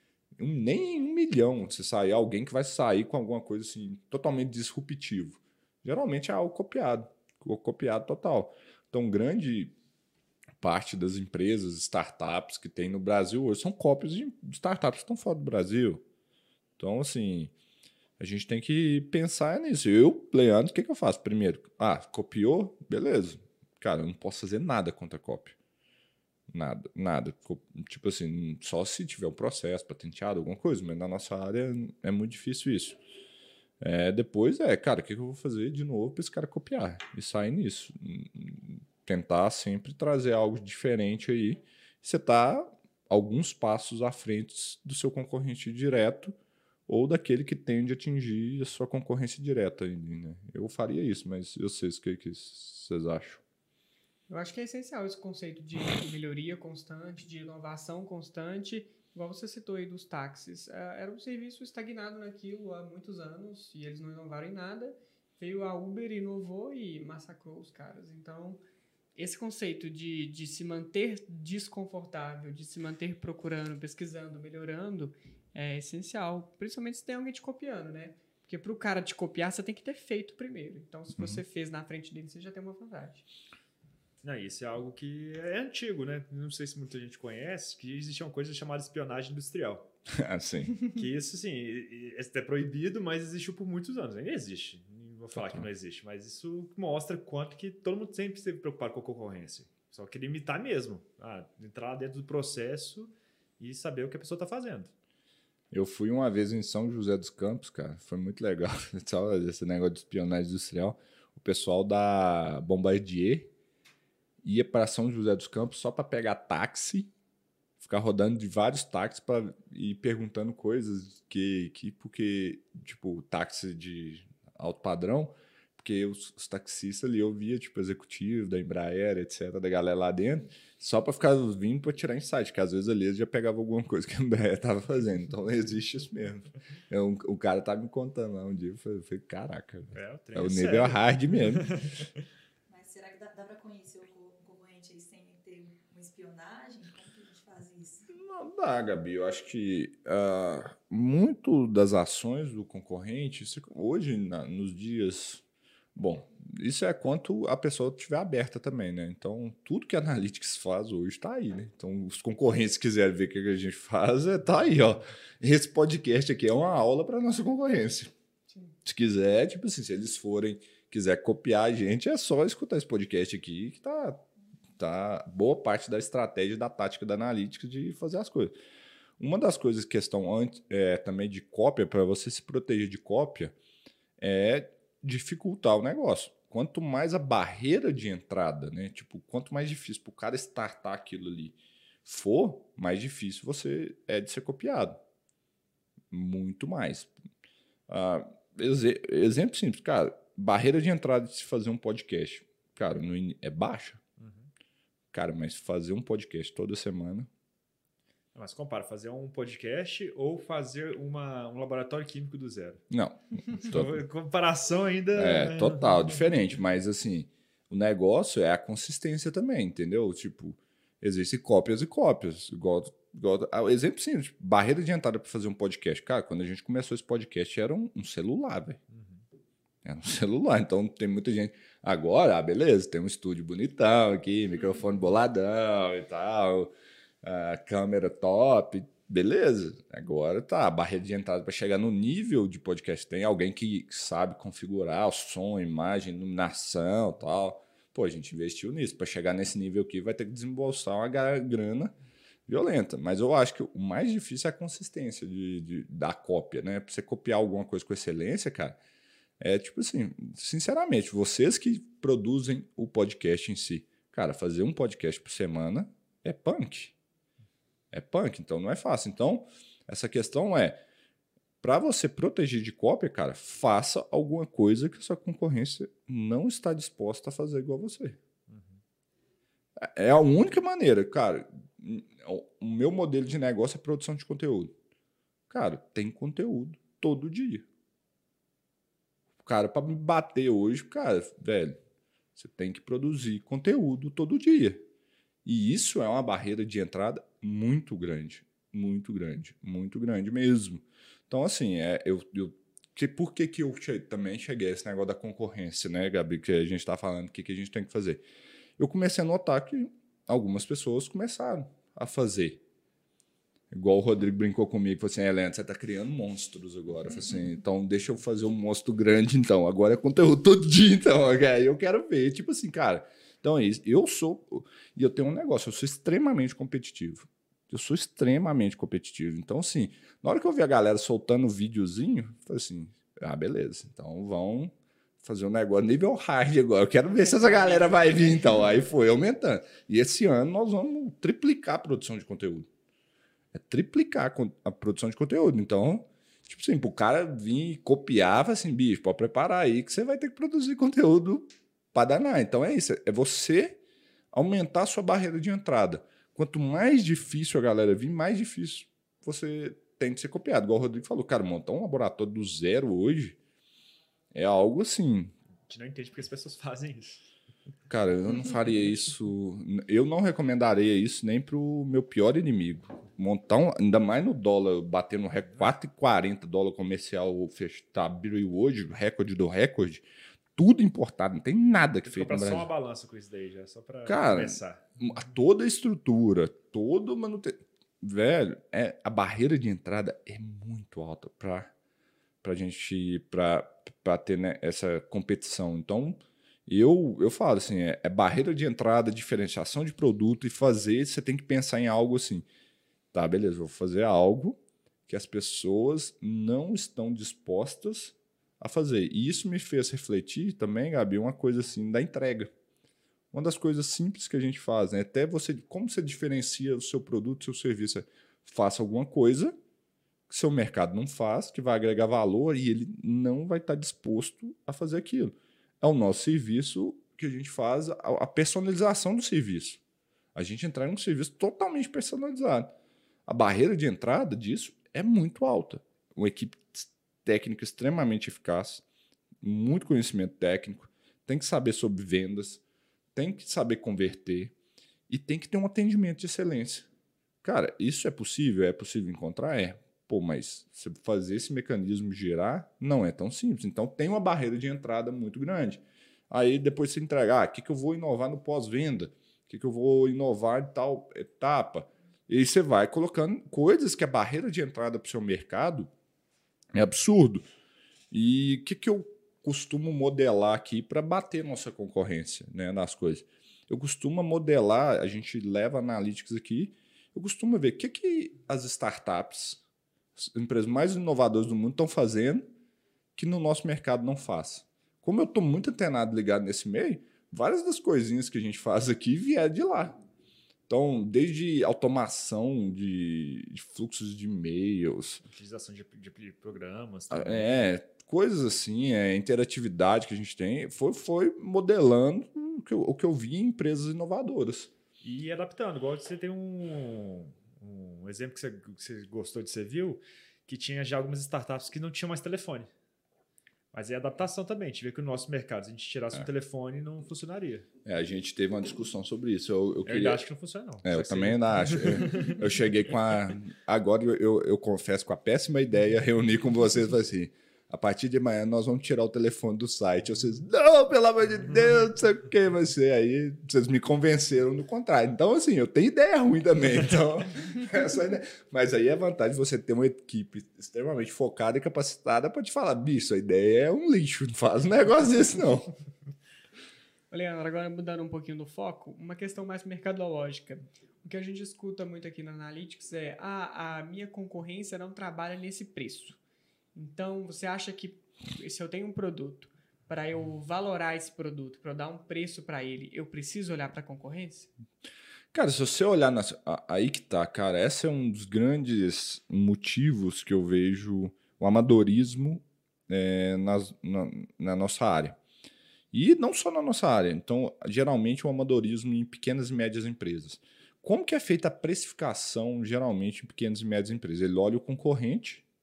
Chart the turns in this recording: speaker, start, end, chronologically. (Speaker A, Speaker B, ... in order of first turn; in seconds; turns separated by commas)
Speaker A: 0.4-9.7, Speaker A: 10.6-16.0, Speaker A: 16.8-17.5, Speaker A: 18.2-25.6, Speaker A: 26.5-33.0, Speaker A: 33.8-46.3, Speaker A: 46.9-53.4, Speaker B: 54.3-68.6, Speaker B: 69.2-83.2, Speaker A: 81.2-81.4, Speaker C: 84.2-89.9, Speaker A: 90.1-90.8, Speaker C: 90.9-104.9, Speaker A: 95.3-95.7, Speaker A: 105.7-113.5, Speaker A: 114.4-117.1, Speaker A: 117.8-141.7, Speaker C: 139.9-142.1, Speaker D: 142.7-148.1, Speaker A: 148.1-155.4, Speaker A: 155.9-168.1, Speaker A: 168.8-174.2, Speaker A: 174.8-178.6, Speaker A: 179.2-183.5, Speaker A: 184.2-195.0, Speaker A: 196.1-197.1, Speaker A: 197.9-204.0, Speaker C: 204.2-204.5, Speaker A: 205.1-207.3, Speaker C: 208.3-212.8, Speaker A: 212.9-214.0, Speaker C: 213.6-216.2, Speaker A: 215.1-228.8, Speaker C: 228.9-229.2, Speaker A: 229.8-251.9, Speaker A: 252.5-258.8, Speaker A: 259.4-266.9, Speaker A: 267.9-270.8, Speaker A: 271.6-278.2, Speaker C: 278.5-278.8, Speaker A: 279.8-284.7, Speaker A: 285.5-287.6, Speaker A: 289.4-291.8, Speaker A: 292.4-294.8, Speaker A: 295.4-308.2, Speaker A: 308.8-312.6, Speaker A: 313.7-342.7, Speaker A: 343.5-353.8, Speaker A: 354.3-363.4, Speaker A: 364.3-365.3, Speaker C: 365.7-367.3, Speaker A: 367.9-382.7, Speaker C: 382.0-384.9, Speaker A: 384.1-391.7, Speaker A: 392.4-402.4, Speaker A: 403.1-412.5, Speaker A: 413.3-419.5, Speaker A: 420.3-429.8, Speaker A: 430.3-432.7, Speaker A: 433.2-438.8, Speaker A: 439.4-442.6, Speaker A: 443.1-444.5, Speaker A: 445.1-446.9, Speaker A: 447.4-465.9, Speaker A: 466.7-467.4, Speaker A: 468.1-479.6, Speaker A: 480.2-482.5, Speaker A: 483.1-489.9, Speaker A: 490.7-495.2, Speaker C: 495.2-497.6, Speaker A: 497.1-504.7, Speaker C: 505.0-512.7, Speaker C: 513.7-517.7, Speaker A: 517.8-520.2, Speaker C: 519.8-522.4, Speaker A: 520.8-545.7, Speaker B: 547.1-556.2, Speaker B: 556.7-564.5, Speaker A: 565.3-575.2, Speaker A: 575.9-585.4